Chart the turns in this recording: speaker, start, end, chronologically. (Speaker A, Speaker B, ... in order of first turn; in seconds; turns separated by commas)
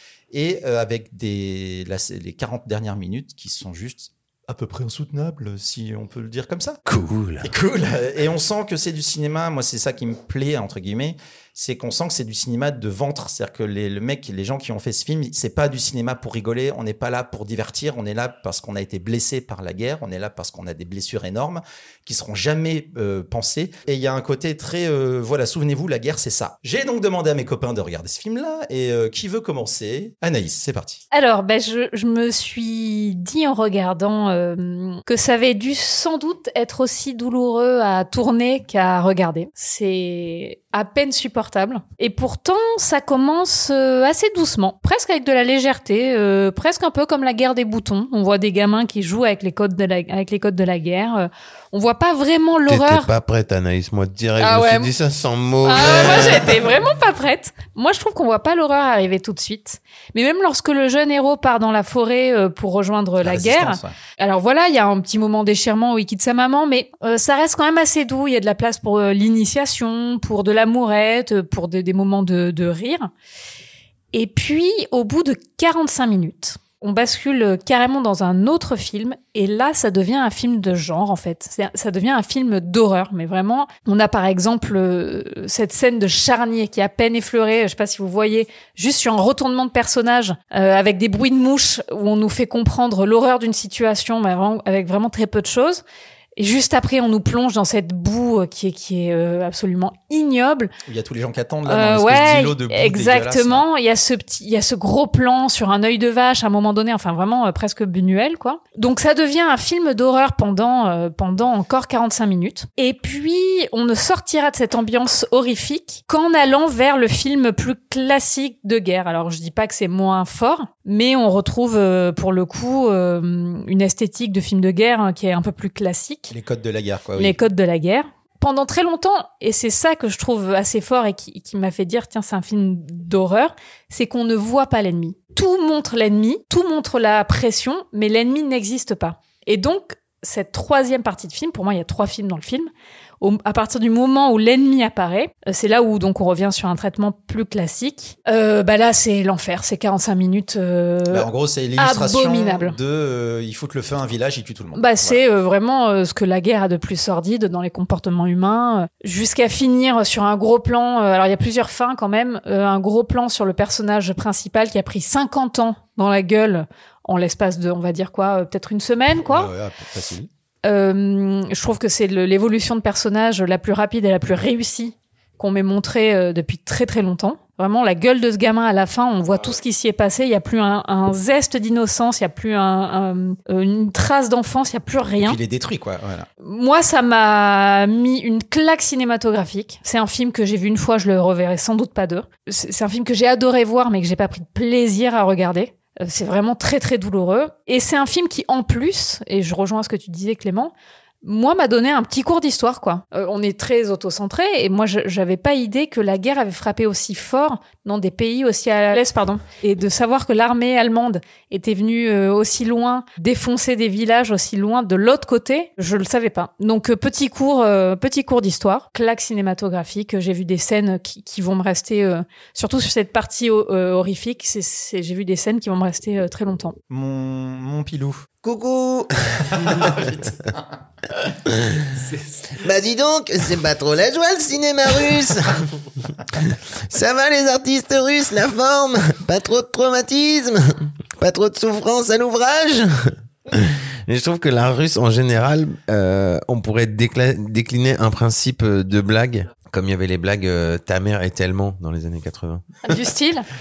Speaker A: 0.3-6.8, Speaker B: 6.8-7.5, Speaker A: 7.4-31.0, Speaker C: 31.1-53.1, Speaker B: 52.7-56.6, Speaker C: 54.4-54.9, Speaker C: 55.6-73.1, Speaker A: 63.2-64.0, Speaker C: 74.1-95.8, Speaker C: 96.4-100.7, Speaker A: 100.8-103.6, Speaker C: 101.7-126.3, Speaker A: 126.3-127.3, Speaker C: 127.2-142.7, Speaker C: 143.2-152.8, Speaker A: 151.1-155.2, Speaker C: 154.7-169.5, Speaker A: 169.2-170.3, Speaker C: 170.6-185.4, Speaker A: 185.2-186.3, Speaker C: 186.4-226.8, Speaker A: 226.9-228.2, Speaker B: 228.4-230.5, Speaker A: 229.5-230.6, Speaker B: 231.4-253.1, Speaker C: 252.8-253.5